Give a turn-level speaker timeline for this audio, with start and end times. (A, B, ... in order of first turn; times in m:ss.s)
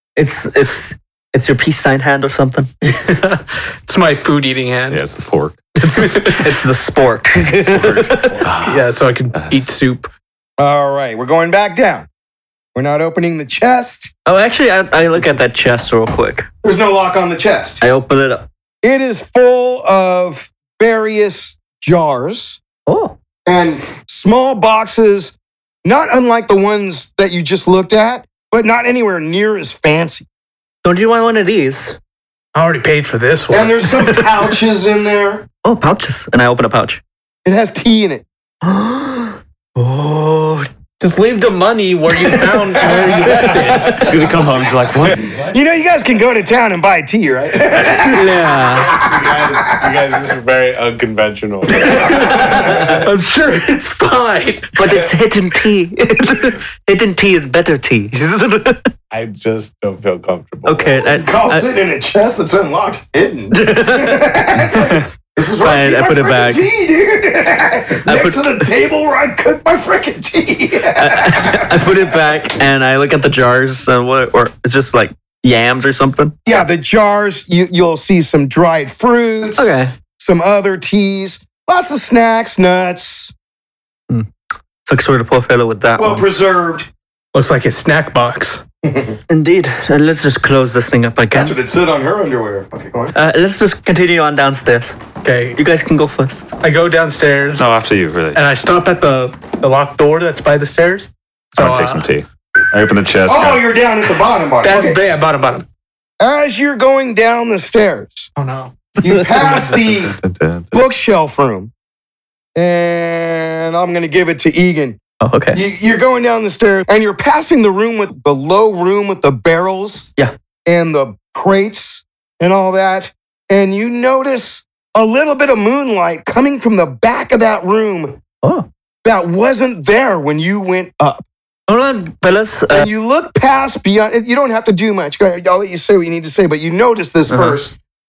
0:00.2-0:02.7 A
0:02.8-0:05.0 B
0:04.9-0:05.6 C
0:05.8-0:06.5 B
0:05.9-0:08.5 A
0:07.5-0:09.6 C
0:08.6-0:10.1 B
0:10.6-0:12.1 D
0:12.8-0:14.1 D
0:14.3-0:16.5 A
0:16.6-0:17.8 D
0:17.8-0:18.4 A
0:18.8-0:22.6 D
0:22.9-0:23.2 A
0:23.5-0:30.3 D
0:30.8-0:32.0 A
0:32.5-0:34.2 B
0:33.5-0:35.5 D
0:35.6-0:37.0 A
0:37.4-0:38.2 D
0:38.6-0:40.7 A
0:41.0-0:44.3 B
0:43.8-0:45.3 C
0:45.2-0:45.5 E
0:45.4-0:48.4 D
0:48.0-0:49.0 A
0:48.8-0:53.0 E
0:49.2-0:49.9 D
0:51.8-0:55.0 B
0:54.8-0:58.9 A
0:59.1-1:01.0 E
1:00.6-1:01.7 A
1:01.1-1:12.0 D
1:03.5-1:04.8 A
1:05.6-1:06.7 A
1:08.0-1:08.7 A
1:11.0-1:16.4 A
1:16.4-1:23.3 D
1:19.6-1:19.9 A
1:24.8-1:26.2 A
1:26.0-1:26.9 D
1:27.3-1:28.6 B
1:28.8-1:29.2 D
1:29.3-1:31.6 A
1:31.3-1:33.1 D
1:33.1-1:35.0 A
1:35.2-1:35.6 B
1:35.6-1:36.5 A
1:36.6-1:37.7 B
1:37.6-1:38.4 C
1:38.4-1:42.0 B
1:41.6-1:43.6 C
1:43.3-1:45.0 D
1:44.6-1:45.6 B
1:46.2-1:48.3 D
1:48.4-1:48.7 B
1:49.0-1:50.2 D
1:49.8-1:50.8 C
1:50.7-1:51.7 D
1:52.6-1:55.0 D
1:55.2-1:55.6 A
1:55.5-2:00.1 D
2:00.7-2:08.2 D
2:09.0-2:11.2 D
2:11.7-2:12.9 A
2:12.7-2:17.8 D
2:17.3-2:17.6 A